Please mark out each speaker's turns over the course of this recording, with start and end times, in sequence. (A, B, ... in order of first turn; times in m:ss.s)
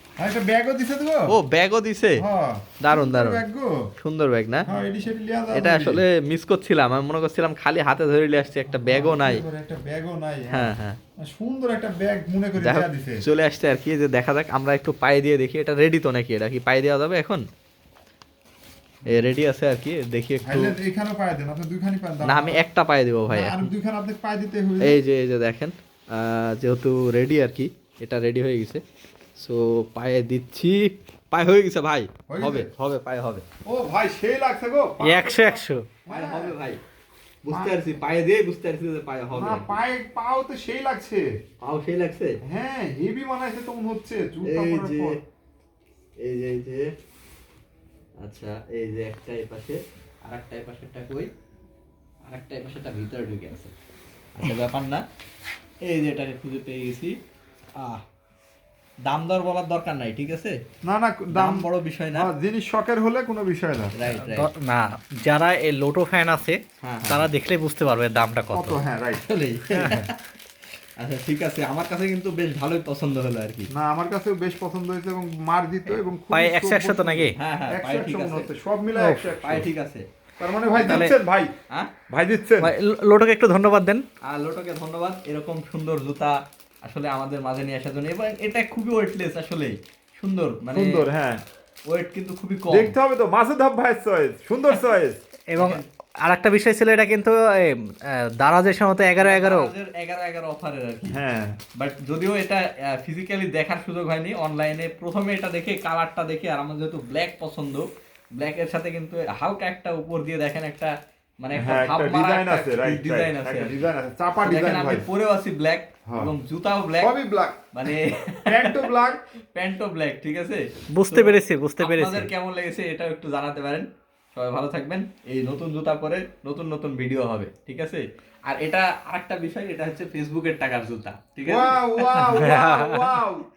0:00.2-0:01.3 A
0:01.3-0:02.2 B
0:02.2-0:03.8 A
0:02.8-0:03.4 B
0:04.0-0:04.7 B
0:04.6-0:06.0 A
0:05.5-0:09.4 B
0:08.7-0:13.2 A
0:10.5-0:11.0 B
0:12.6-0:17.4 B
0:19.1-0:20.8 B
0:20.4-0:22.6 A
0:22.2-0:23.7 B
0:23.3-0:25.0 A
0:24.8-0:28.8 B
0:29.4-0:33.4 B
0:32.3-0:32.7 A
0:33.7-0:36.6 A
0:35.0-0:35.9 C
0:36.1-0:36.8 B
0:37.4-0:39.8 B
0:37.5-0:37.8 A
0:39.3-0:41.2 A
0:41.6-0:42.4 B
0:42.5-0:45.2 A
0:44.4-0:45.2 B
0:46.2-0:46.8 B
0:48.2-0:51.3 B
0:52.3-0:53.7 B
0:54.4-0:55.0 B
0:55.8-0:57.1 B
0:59.1-1:00.6 B
1:00.8-1:04.0 A
1:01.3-1:02.3 B
1:03.9-1:04.5 B
1:04.1-1:08.8 C
1:06.8-1:07.3 B
1:08.5-1:09.2 A
1:09.2-1:10.2 B
1:11.0-1:13.7 B
1:13.7-1:19.7 A
1:16.3-1:17.4 C
1:17.4-1:18.5 B
1:18.9-1:19.4 C
1:19.4-1:20.0 B
1:20.4-1:21.5 A
1:20.8-1:21.1 B
1:20.9-1:21.2 C
1:22.1-1:22.7 A
1:22.6-1:24.0 C
1:24.3-1:31.1 B
1:30.7-1:31.4 A
1:31.9-1:33.0 B
1:32.7-1:35.2 A
1:35.5-1:39.7 C
1:35.6-1:35.8 B
1:39.2-1:41.2 B
1:41.1-1:41.6 A
1:41.8-1:47.8 B
1:48.4-1:53.9 B
1:51.5-1:55.1 A
1:54.4-1:57.2 B
1:56.1-1:56.3 A
1:57.0-1:58.0 A
1:57.7-1:59.0 B
1:58.5-1:59.2 A
1:59.5-2:12.7 B
2:00.9-2:02.3 C
2:11.4-2:13.5 A
2:12.3-2:13.2 C